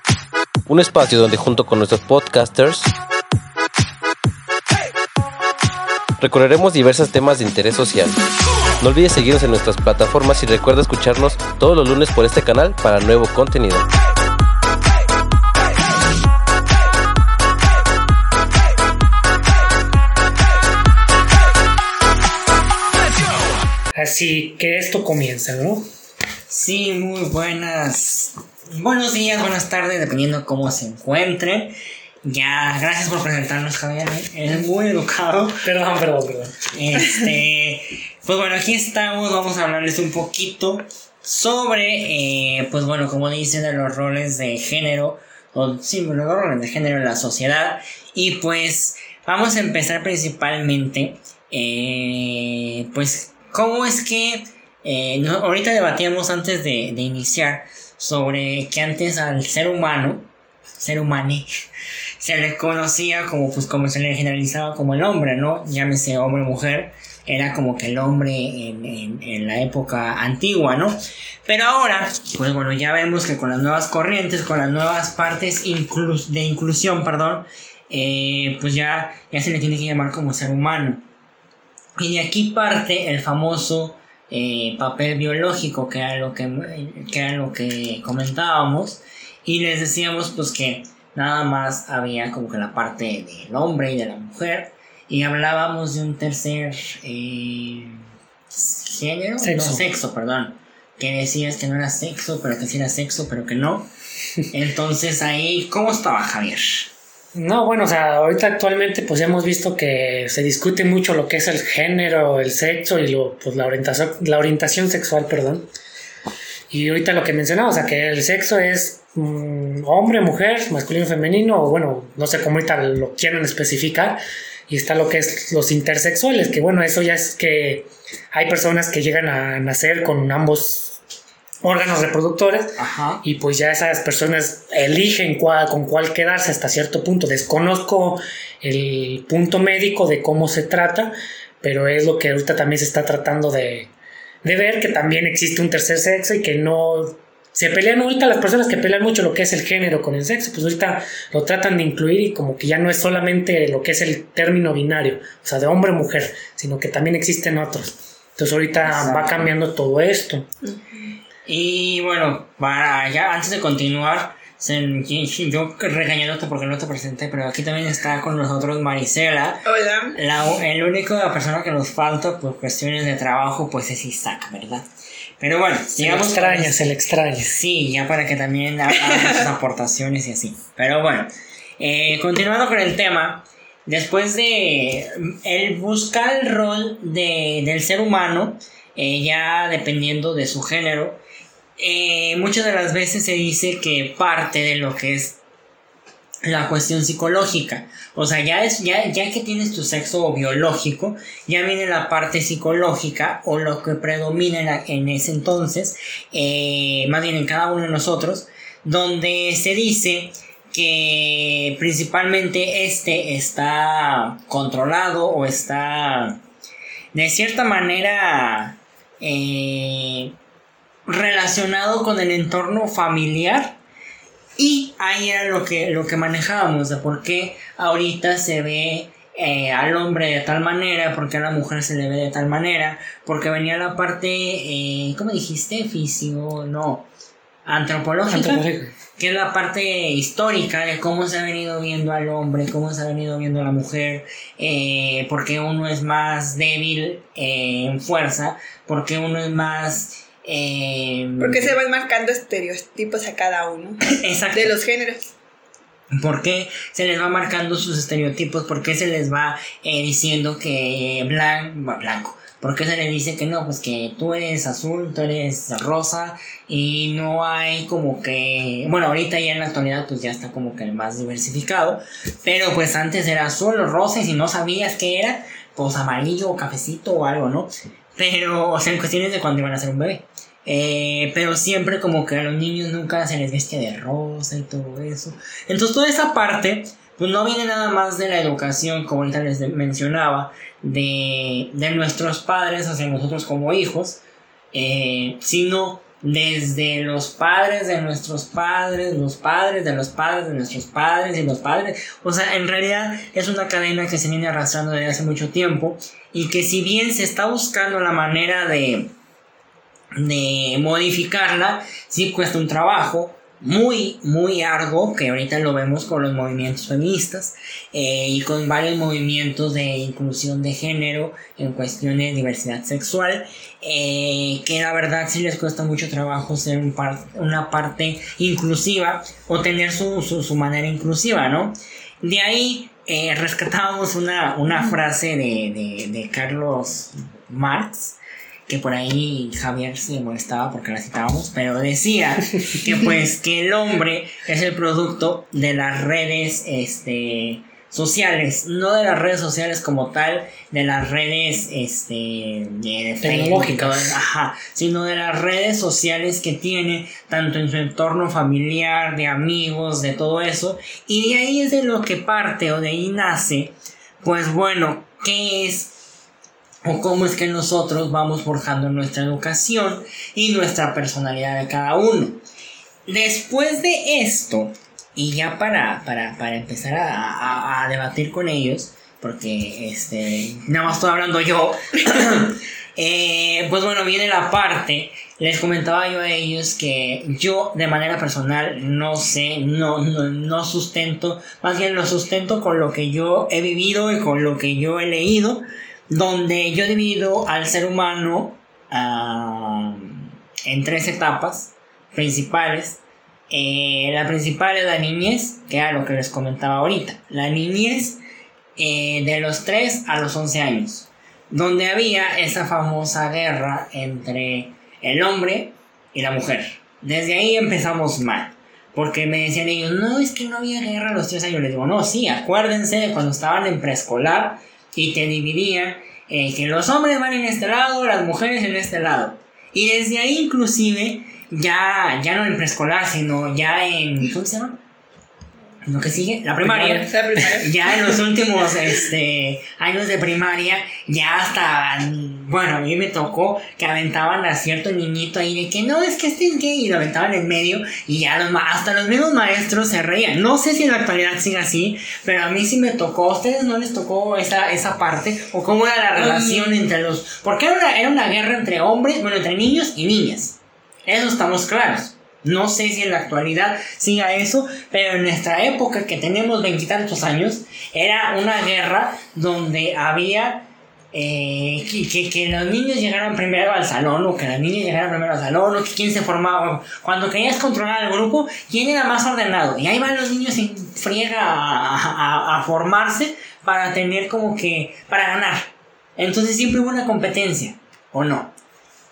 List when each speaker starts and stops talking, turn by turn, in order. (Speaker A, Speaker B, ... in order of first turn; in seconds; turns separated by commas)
Speaker A: 0.7-2.9, Speaker A: 6.2-8.2, Speaker A: 8.8-13.8, Speaker B: 23.9-25.9, Speaker C: 26.5-35.6, Speaker B: 35.6-36.5, Speaker C: 36.7-61.5, Speaker C: 62.2-81.0, Speaker C: 82.0-103.9, Speaker B: 99.4-99.8, Speaker C: 104.5-106.9, Speaker B: 107.3-115.7, Speaker B: 116.7-131.0, Speaker B: 131.6-143.9, Speaker C: 132.8-133.2, Speaker B: 144.4-160.5, Speaker C: 158.8-159.5, Speaker C: 161.4-174.9, Speaker D: 169.7-170.2, Speaker C: 175.4-191.2, Speaker B: 176.0-177.5, Speaker C: 191.8-195.4, Speaker C: 196.4-216.4, Speaker C: 217.1-220.3, Speaker C: 221.1-223.8, Speaker C: 224.6-237.1, Speaker C: 237.7-238.6, Speaker B: 238.3-238.9, Speaker C: 239.2-251.7, Speaker D: 251.4-255.2, Speaker C: 254.1-254.8, Speaker C: 256.2-294.2, Speaker C: 294.7-309.1, Speaker C: 310.2-365.9, Speaker B: 353.2-354.1, Speaker C: 366.9-372.4, Speaker C: 373.1-408.2, Speaker C: 408.8-434.8, Speaker C: 435.9-488.6, Speaker B: 436.6-437.1, Speaker D: 436.9-438.2, Speaker D: 456.2-456.8